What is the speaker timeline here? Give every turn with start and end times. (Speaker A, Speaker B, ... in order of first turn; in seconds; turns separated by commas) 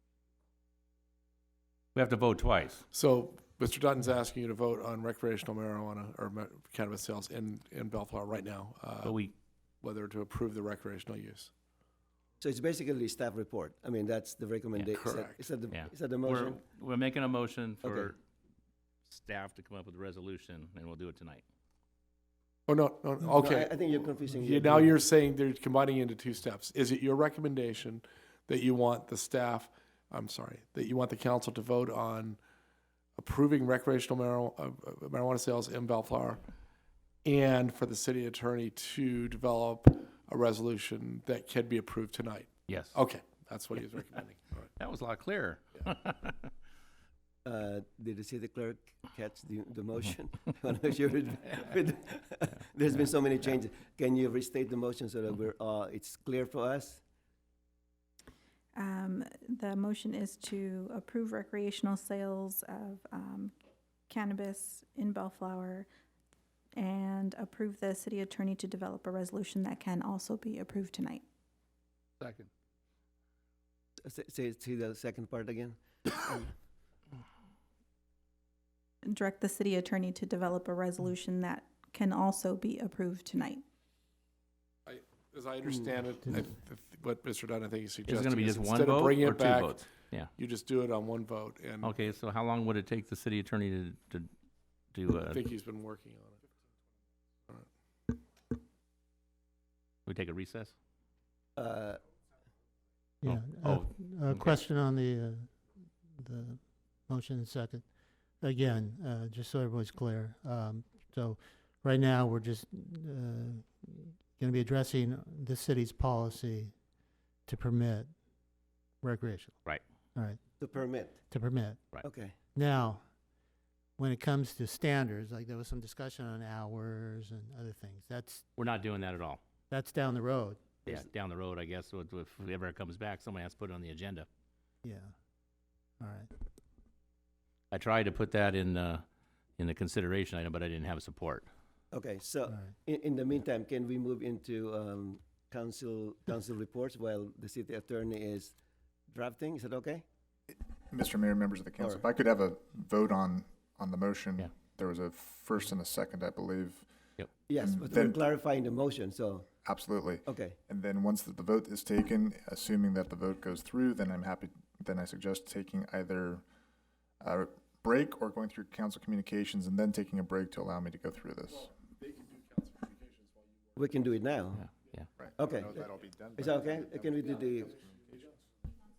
Speaker A: 1.9-2.8, Speaker B: 2.9-9.2, Speaker A: 9.0-9.3, Speaker B: 9.8-11.5, Speaker C: 12.4-16.6, Speaker B: 14.9-15.5, Speaker A: 15.7-18.2, Speaker C: 17.8-18.1, Speaker A: 19.1-21.4, Speaker B: 22.7-32.4, Speaker C: 23.2-25.0, Speaker B: 33.2-36.4, Speaker B: 37.2-44.7, Speaker A: 42.7-43.0, Speaker A: 44.8-46.5, Speaker C: 47.4-57.0, Speaker D: 58.8-63.5, Speaker D: 64.1-65.9, Speaker D: 66.8-71.2, Speaker C: 74.0-76.5, Speaker D: 79.0-83.6, Speaker B: 84.8-92.0, Speaker A: 88.0-90.3, Speaker A: 91.8-94.3, Speaker A: 94.9-95.4, Speaker B: 95.3-96.4, Speaker A: 100.0-100.7, Speaker C: 101.5-102.0, Speaker E: 103.2-105.5, Speaker A: 103.2-104.5, Speaker E: 106.2-107.8, Speaker E: 108.4-116.7, Speaker E: 117.5-118.1, Speaker E: 119.0-119.6, Speaker C: 120.6-121.2, Speaker E: 121.3-121.8, Speaker C: 122.0-122.3, Speaker E: 122.5-123.0, Speaker E: 124.0-128.4, Speaker A: 128.6-129.4, Speaker E: 129.7-130.7, Speaker A: 130.8-134.3, Speaker E: 134.8-135.1, Speaker E: 136.0-136.3, Speaker A: 137.7-139.0, Speaker A: 139.6-141.5, Speaker C: 141.9-148.5, Speaker E: 142.5-142.8, Speaker C: 149.1-150.0, Speaker F: 150.9-156.8, Speaker C: 157.5-159.5, Speaker F: 157.6-158.2, Speaker F: 159.6-166.4, Speaker C: 160.3-160.6, Speaker F: 167.2-171.7, Speaker B: 171.9-173.7, Speaker C: 173.8-174.6, Speaker A: 174.6-175.1, Speaker F: 175.2-176.9, Speaker C: 175.4-175.8, Speaker C: 176.3-177.8